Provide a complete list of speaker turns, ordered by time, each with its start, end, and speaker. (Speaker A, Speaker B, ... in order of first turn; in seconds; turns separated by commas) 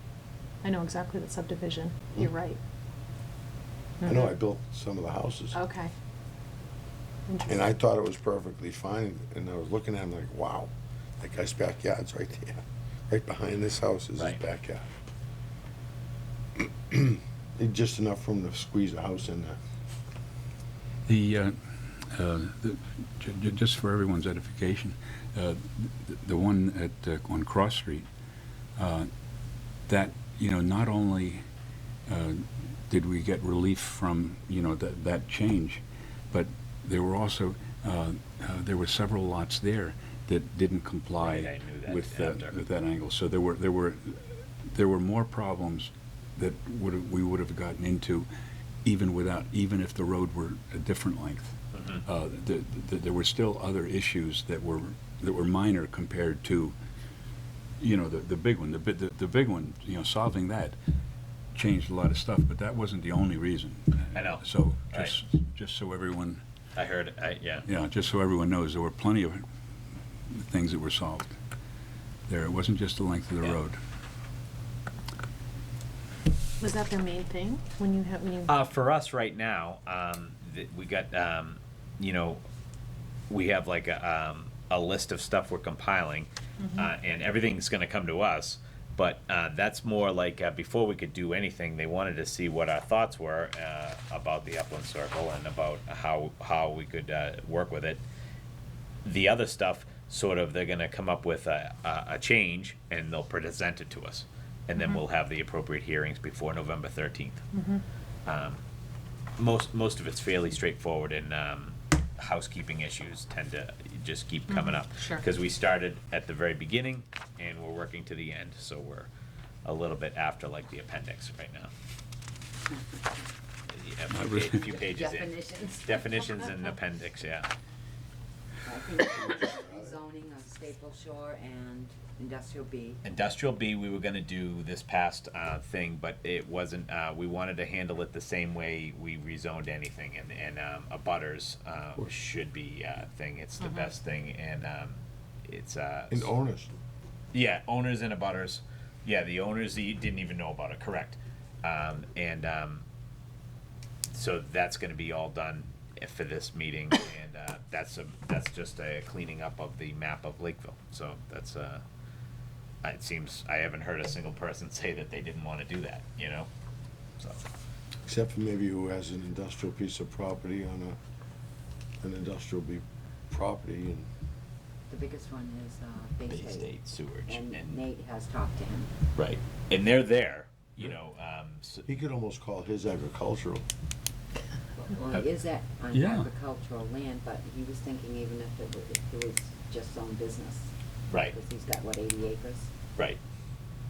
Speaker A: 0.6-2.6, Speaker A: 4.0-4.3, Speaker B: 4.0-5.6, Speaker A: 5.5-5.9, Speaker A: 7.3-7.6, Speaker B: 7.5-14.8, Speaker B: 16.9-19.6, Speaker C: 21.1-28.1, Speaker C: 28.8-29.1, Speaker C: 29.9-31.4, Speaker C: 32.1-48.3, Speaker D: 41.2-42.5, Speaker C: 48.8-56.7, Speaker D: 51.7-52.0, Speaker C: 57.8-60.8, Speaker C: 61.5-66.4, Speaker D: 64.1-65.2, Speaker D: 66.7-67.7, Speaker C: 67.6-69.4, Speaker C: 70.3-71.4, Speaker C: 72.3-73.8, Speaker A: 76.6-78.6, Speaker D: 78.5-82.4, Speaker D: 83.3-98.0, Speaker A: 86.6-86.9, Speaker D: 99.0-107.4, Speaker A: 104.8-105.0, Speaker A: 107.5-107.8, Speaker D: 108.2-108.6, Speaker D: 109.4-119.1, Speaker A: 114.5-115.2, Speaker D: 119.6-121.7, Speaker D: 123.7-127.5, Speaker C: 124.1-124.8, Speaker E: 124.6-126.0, Speaker E: 128.7-133.0, Speaker B: 129.2-129.9, Speaker D: 133.0-146.3, Speaker B: 146.1-146.7, Speaker D: 147.3-152.8, Speaker D: 154.1-161.8, Speaker D: 162.8-166.5, Speaker B: 168.0-171.0, Speaker B: 172.0-174.1, Speaker E: 174.9-176.7, Speaker D: 176.3-177.8, Speaker E: 177.2-178.9, Speaker D: 179.1-181.9, Speaker B: 181.9-183.6, Speaker E: 184.8-190.7, Speaker C: 185.9-186.3, Speaker D: 191.1-191.3, Speaker E: 191.2-192.7